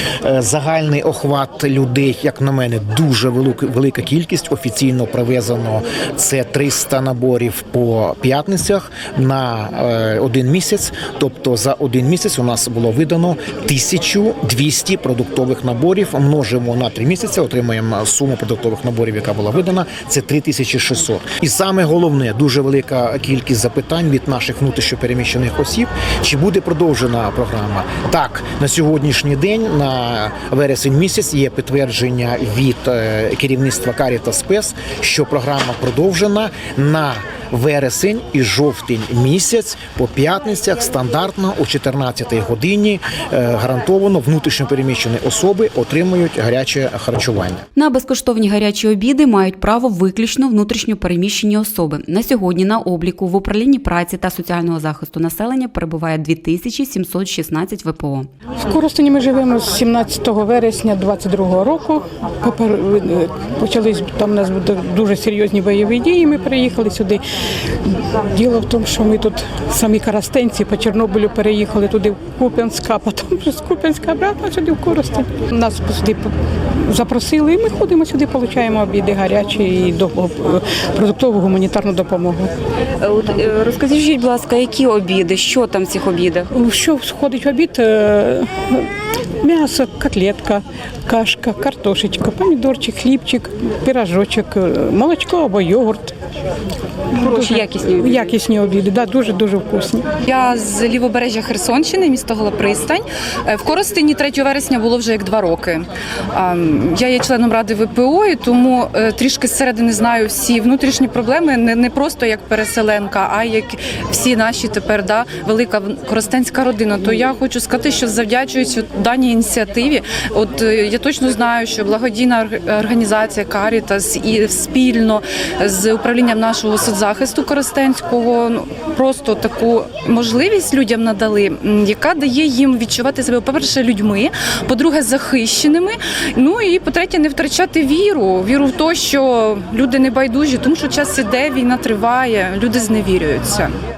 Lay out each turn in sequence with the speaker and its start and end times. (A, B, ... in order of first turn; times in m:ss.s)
0:00.2-0:47.6 A
0:47.8-0:58.3 B
0:58.6-1:07.2 C
1:07.8-1:22.5 C
1:23.0-1:26.5 B
1:26.5-1:28.9 C
1:29.4-1:36.1 C
1:37.1-1:38.3 B
1:37.1-1:40.1 C
1:40.2-2:23.7 D